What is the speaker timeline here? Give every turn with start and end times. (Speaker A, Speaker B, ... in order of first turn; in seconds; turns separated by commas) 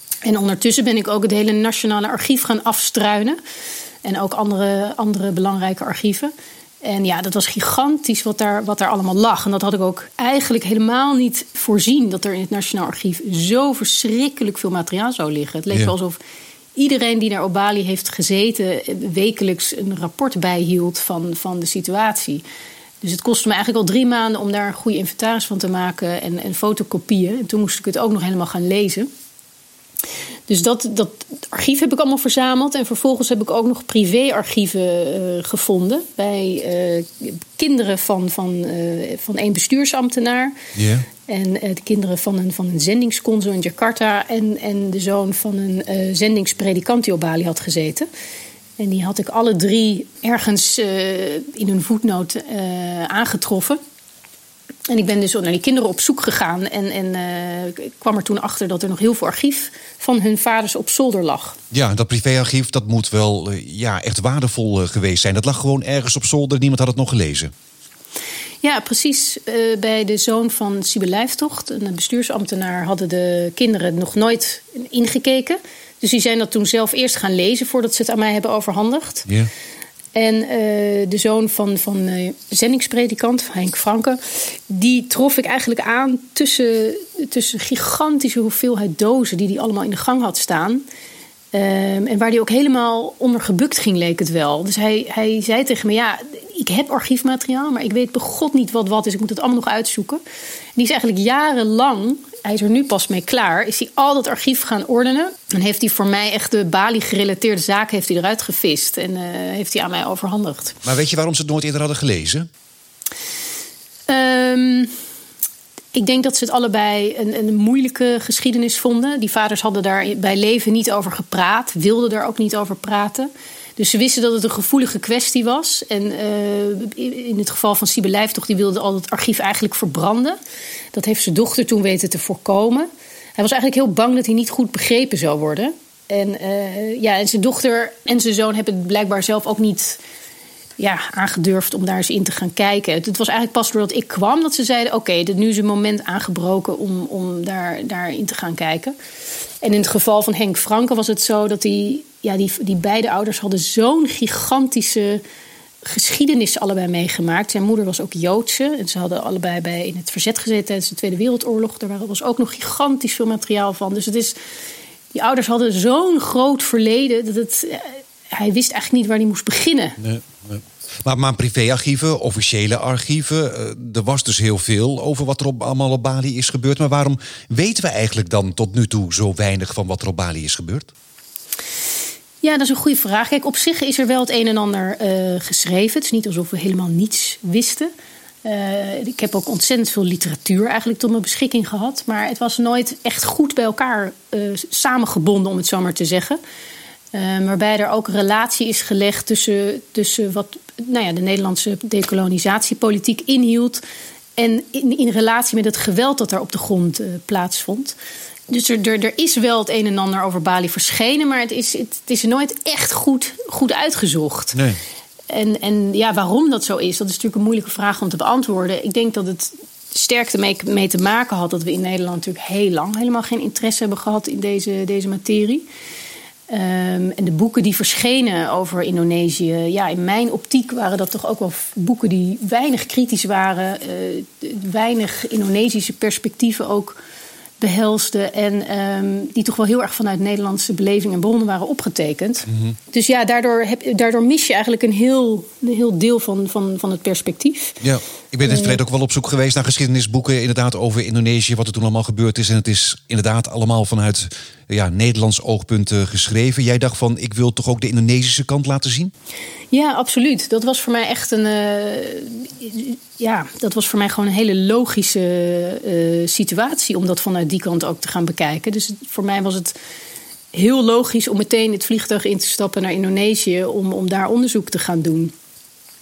Speaker A: 0.2-3.4, Speaker A: 4.0-16.2, Speaker A: 16.8-22.4, Speaker A: 23.0-29.1, Speaker A: 30.5-40.6, Speaker B: 40.8-41.1, Speaker A: 41.2-48.1, Speaker A: 48.8-53.8, Speaker A: 54.9-61.6, Speaker B: 61.7-67.5, Speaker A: 68.6-79.3, Speaker A: 80.1-90.8, Speaker A: 91.5-100.2, Speaker A: 100.8-110.8, Speaker B: 110.8-112.5, Speaker A: 114.1-114.9, Speaker A: 115.9-130.4, Speaker A: 130.9-140.0, Speaker A: 140.8-148.9, Speaker A: 149.6-155.2, Speaker A: 155.8-164.4, Speaker A: 165.1-170.0, Speaker B: 170.0-180.9, Speaker A: 182.4-187.9, Speaker A: 188.4-196.4, Speaker A: 197.1-203.8, Speaker A: 204.4-208.0, Speaker A: 208.5-214.6, Speaker B: 214.5-214.8, Speaker A: 215.3-225.7, Speaker A: 226.5-237.0, Speaker A: 237.6-247.8, Speaker B: 242.5-242.8, Speaker B: 247.8-259.1, Speaker A: 248.4-248.8, Speaker A: 259.7-269.8, Speaker A: 270.5-275.3